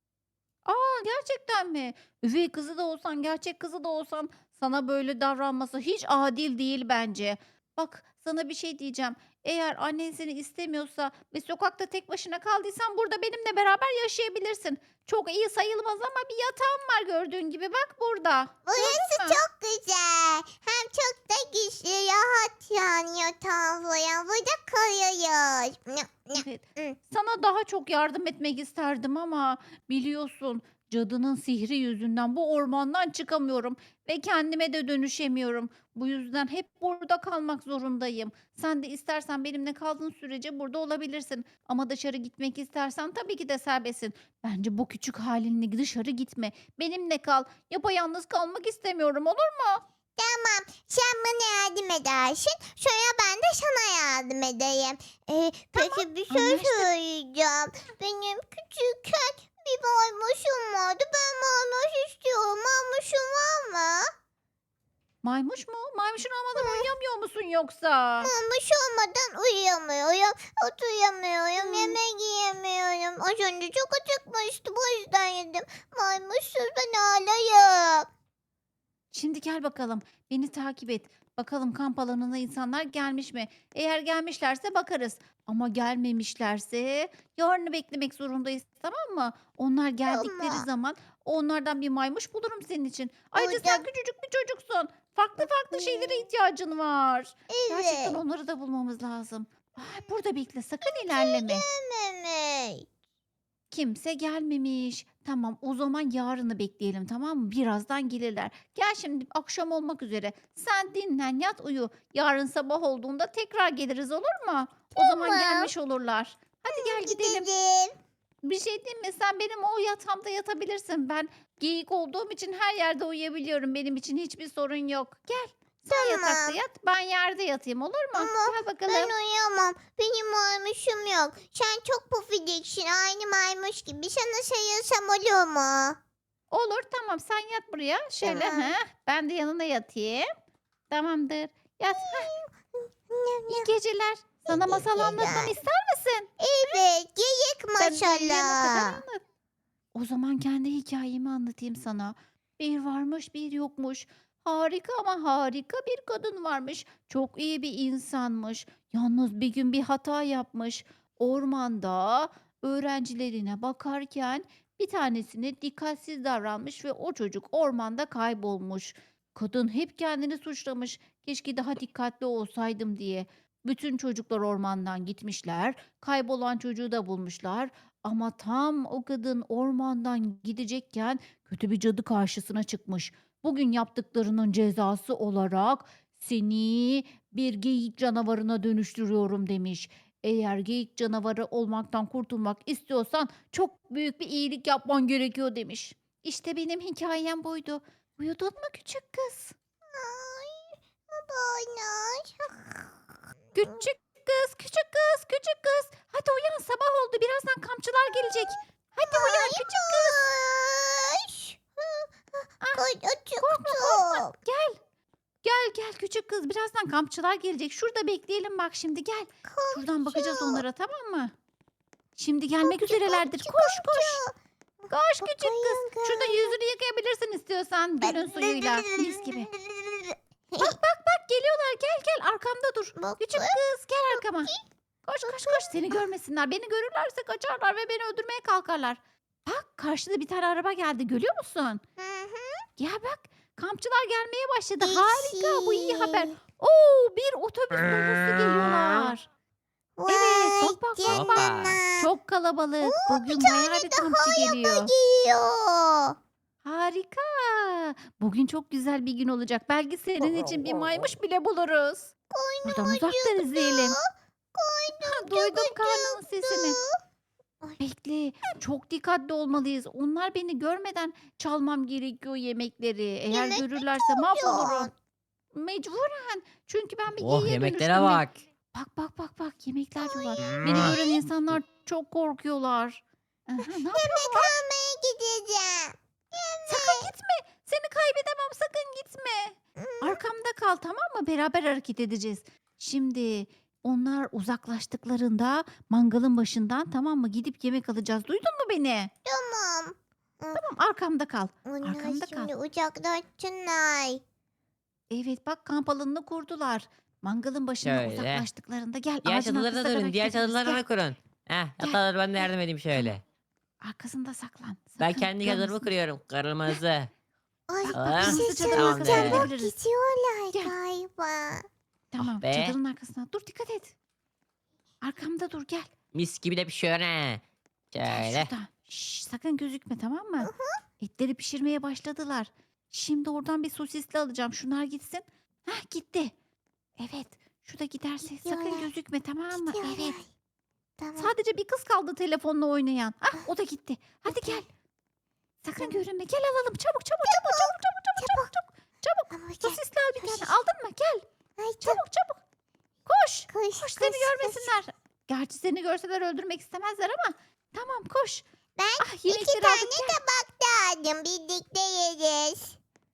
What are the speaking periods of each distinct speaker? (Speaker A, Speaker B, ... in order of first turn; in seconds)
Speaker A: 0.7-19.4, 26.3-49.8, 55.8-56.9, 65.2-68.3, 71.6-72.0, 79.1-101.6, 103.7-117.5, 118.4-129.1, 136.5-140.3, 140.9-142.3, 143.5-146.3, 147.8-149.2, 149.9-199.5, 203.5-210.2, 213.4-214.8, 215.4-221.3, 222.2-224.2, 224.9-229.5, 230.6-234.5, 235.1-241.8, 242.8-249.2, 250.1-254.9, 256.6-262.1, 262.6-264.0, 265.0-266.8, 267.8-274.9, 275.5-278.2, 278.7-284.5, 286.7-299.1, 300.5-302.5, 305.1-310.8, 313.8-315.9, 317.8-319.7, 322.1-323.9, 325.0-325.9, 328.0-336.3, 337.0-340.1, 341.2-344.7, 345.6-351.2, 351.8-352.4, 353.1-358.4, 359.0-360.2
Speaker B: 18.6-27.0, 50.1-64.1, 66.5-66.9, 68.2-78.1, 90.0-90.7, 93.3-93.9, 95.4-96.2, 97.5-98.2, 100.8-102.8, 114.9-115.7, 116.7-117.9, 125.9-126.6, 128.1-136.0, 138.2-138.7, 141.9-143.7, 144.4-145.6, 146.4-149.0, 199.9-202.9, 209.1-214.3, 219.4-220.6, 222.6-226.5, 228.0-230.8, 233.0-233.6, 234.1-234.6, 235.3-236.0, 242.0-242.6, 244.8-246.3, 250.0-252.1, 252.8-256.1, 262.3-267.0, 273.3-274.9, 280.0-280.9, 283.6-287.1, 289.8-290.2, 299.2-300.6, 301.6-304.2, 317.7-321.6, 330.4-330.8, 338.3-338.9, 339.5-340.3, 341.0-341.3, 344.3-344.6, 347.2-348.5, 349.3-350.5, 351.6-352.0, 353.5-354.7, 358.8-362.8
Speaker C: 251.0-251.8, 260.5-261.0, 277.1-278.3, 280.7-280.9, 307.8-308.5, 309.2-313.2, 315.0-317.1, 317.9-319.5, 322.2-322.8, 326.1-328.5